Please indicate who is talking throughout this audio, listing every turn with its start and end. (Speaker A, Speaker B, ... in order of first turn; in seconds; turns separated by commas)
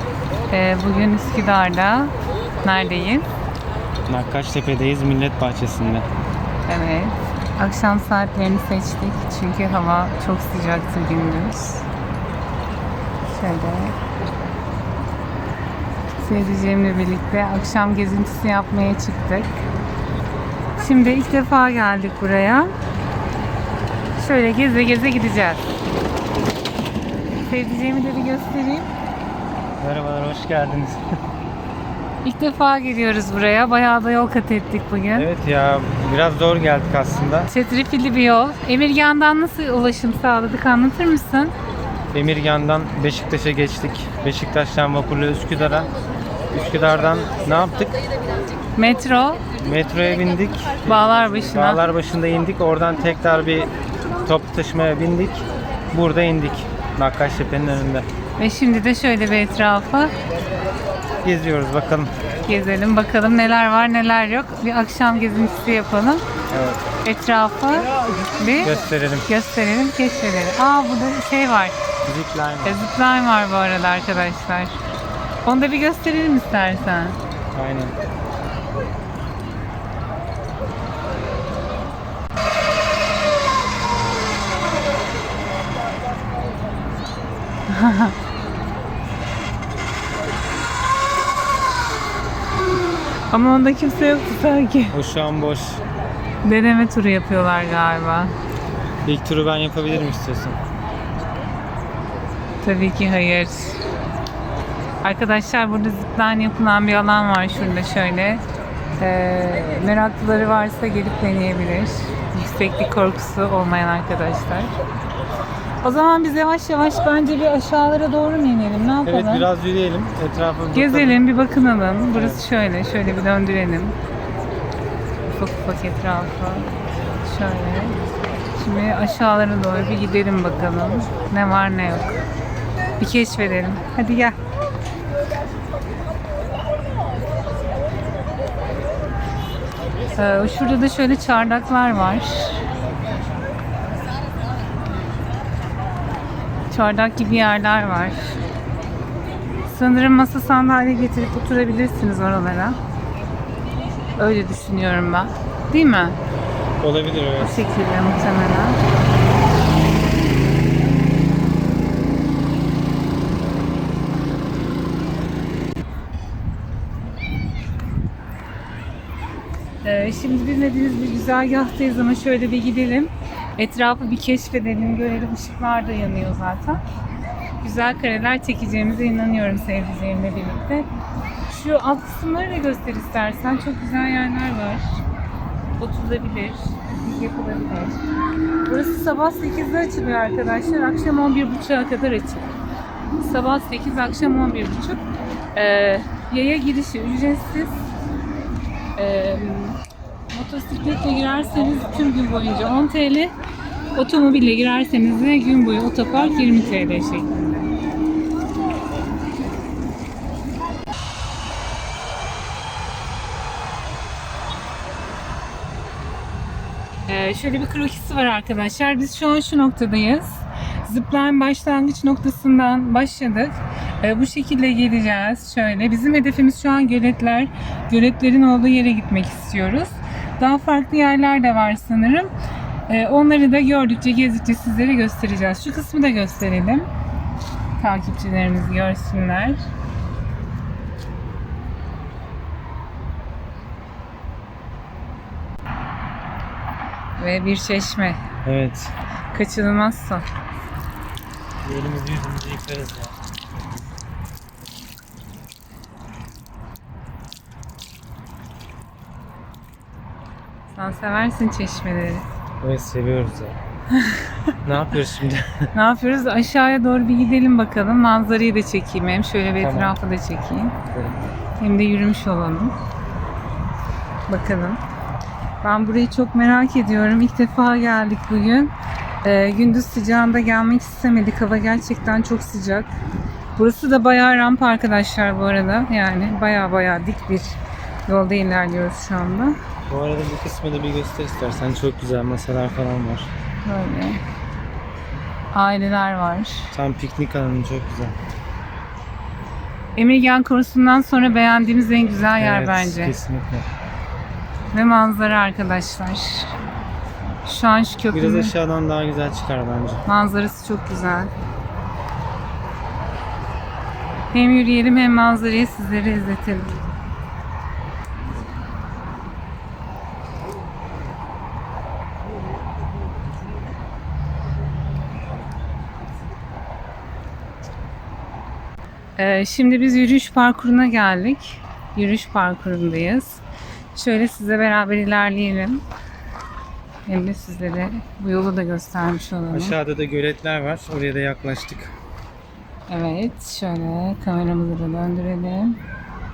Speaker A: 0.5-3.3, Speaker B: 4.1-6.0, Speaker A: 6.7-11.8, Speaker A: 13.3-13.9, Speaker A: 16.2-19.5, Speaker A: 20.8-22.7, Speaker A: 24.2-25.6, Speaker A: 27.5-28.9, Speaker B: 29.8-31.0, Speaker A: 32.2-35.3, Speaker B: 35.1-37.5, Speaker A: 37.5-41.5, Speaker B: 42.1-45.9, Speaker B: 46.5-47.9, Speaker A: 48.8-49.5, Speaker B: 49.6-53.7, Speaker A: 50.8-51.8, Speaker B: 54.2-58.1, Speaker A: 58.4-60.1, Speaker B: 61.2-62.1, Speaker A: 62.5-66.2, Speaker B: 66.5-66.8, Speaker A: 67.0-68.7, Speaker B: 68.6-69.3, Speaker A: 69.2-71.7, Speaker B: 72.0-72.8, Speaker A: 72.6-74.7, Speaker A: 75.4-77.2, Speaker B: 77.5-77.9, Speaker A: 87.7-88.2, Speaker A: 93.3-95.0, Speaker B: 94.9-95.8, Speaker A: 96.4-98.3, Speaker B: 99.0-100.6, Speaker A: 102.6-103.8, Speaker A: 105.0-108.4, Speaker A: 109.0-114.7, Speaker A: 115.8-119.5, Speaker B: 119.0-121.2, Speaker A: 120.7-123.9, Speaker B: 122.1-122.4, Speaker A: 125.3-128.0, Speaker A: 128.6-132.2, Speaker A: 133.0-134.3, Speaker A: 140.2-142.6, Speaker A: 146.7-148.3, Speaker A: 149.7-152.8, Speaker A: 154.2-156.2, Speaker B: 156.8-157.7, Speaker A: 157.4-158.8, Speaker A: 169.8-176.8, Speaker A: 177.6-180.9, Speaker A: 181.5-185.0, Speaker A: 185.8-188.0, Speaker A: 188.7-192.5, Speaker A: 193.2-195.0, Speaker A: 195.5-197.8, Speaker A: 198.9-199.8, Speaker A: 200.3-203.3, Speaker A: 203.9-207.7, Speaker A: 217.1-232.3, Speaker A: 232.9-236.9, Speaker A: 237.8-239.6, Speaker A: 247.2-248.2, Speaker B: 248.4-248.9, Speaker A: 249.3-250.2, Speaker B: 251.6-253.1, Speaker A: 260.7-262.2, Speaker B: 262.6-263.6, Speaker A: 263.9-264.5, Speaker B: 264.6-265.7, Speaker A: 265.7-270.8, Speaker B: 269.6-269.9, Speaker B: 270.9-271.2, Speaker A: 271.6-272.7, Speaker A: 274.3-274.8, Speaker A: 275.6-278.7, Speaker A: 279.2-282.9, Speaker A: 283.6-289.5, Speaker B: 289.9-293.3, Speaker A: 293.6-294.2, Speaker A: 295.5-296.7, Speaker B: 296.7-298.1, Speaker A: 299.9-303.1, Speaker B: 302.4-303.7, Speaker A: 304.7-306.5, Speaker A: 307.4-308.5, Speaker B: 308.1-310.0, Speaker A: 310.1-311.3, Speaker A: 314.3-316.8, Speaker A: 329.2-333.4, Speaker A: 333.9-335.8, Speaker A: 337.1-339.8, Speaker B: 339.5-341.9, Speaker A: 342.9-345.8